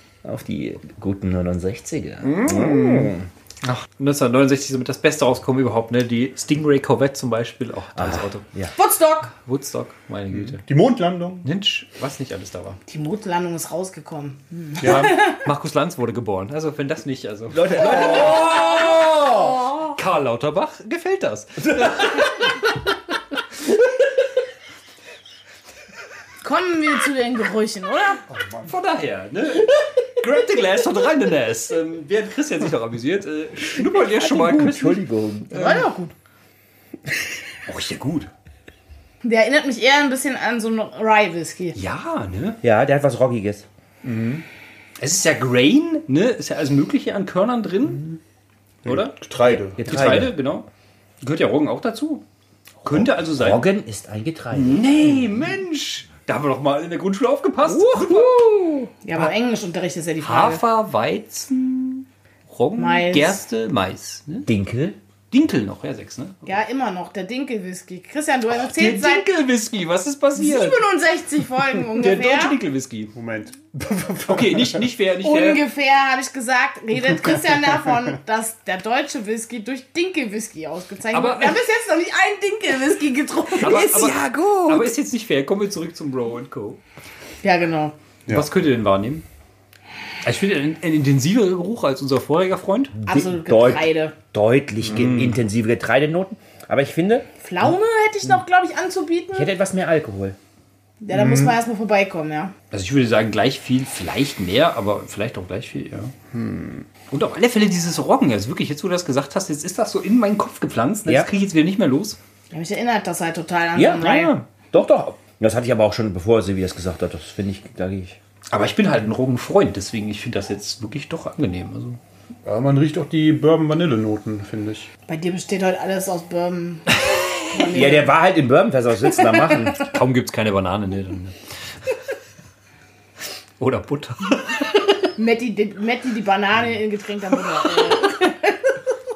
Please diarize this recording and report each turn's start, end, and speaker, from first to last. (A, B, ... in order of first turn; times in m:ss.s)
0:00.2-0:03.3 A
0:02.2-0:08.4 B
0:08.0-0:08.7 A
0:08.8-0:09.3 C
0:09.4-0:10.6 B
0:10.3-0:11.4 D
0:11.4-0:12.8 B
0:12.9-0:15.4 C
0:14.8-0:18.6 B
0:14.8-0:15.1 D
0:17.5-0:19.7 A
0:18.0-0:18.8 C
0:19.8-0:22.6 B
0:21.6-0:22.3 A
0:26.4-0:28.2 C
0:28.3-0:28.7 D
0:28.6-0:35.0 B
0:33.9-0:35.8 A
0:35.5-0:36.1 C
0:35.5-0:35.8 B
0:37.6-0:38.3 B
0:39.2-0:41.8 C
0:41.8-0:42.6 B
0:42.6-0:43.7 A
0:44.0-0:44.4 D
0:45.0-0:48.0 B
0:48.8-0:49.2 B
0:48.8-0:50.3 D
0:49.4-0:50.4 A
0:49.8-0:50.7 B
0:51.2-0:52.2 B
0:52.8-0:53.6 B
0:52.8-0:55.2 A
0:54.6-0:58.3 B
0:57.6-0:59.2 A
0:59.0-1:00.6 C
1:00.2-1:04.5 B
1:02.8-1:03.4 C
1:04.4-1:05.0 A
1:05.3-1:06.4 B
1:06.4-1:09.3 C
1:08.5-1:10.8 B
1:10.4-1:12.6 C
1:12.0-1:13.1 B
1:13.1-1:14.8 D
1:14.2-1:15.6 B
1:15.2-1:24.2 C
1:17.3-1:17.6 D
1:21.1-1:21.6 B
1:23.6-1:26.8 B
1:23.7-1:24.9 A
1:27.4-1:27.9 C
1:28.3-1:29.2 B
1:30.2-1:32.9 B
1:33.0-1:37.3 A
1:33.0-1:34.1 C
1:34.8-1:35.3 D
1:37.4-1:39.5 C
1:39.3-1:40.4 A
1:41.0-1:42.5 C
1:41.1-1:41.6 D
1:42.7-1:46.1 B
1:46.3-1:46.8 D
1:47.1-1:52.2 B
1:52.5-1:54.3 C
1:53.7-1:58.2 A
1:54.0-1:54.3 B
1:58.5-2:02.0 B
2:02.4-2:04.9 D
2:05.1-2:08.1 C
2:07.7-2:09.9 A
2:09.2-2:09.6 C
2:09.8-2:11.3 B
2:13.6-2:14.7 B
2:15.2-2:18.7 C
2:17.5-2:17.9 B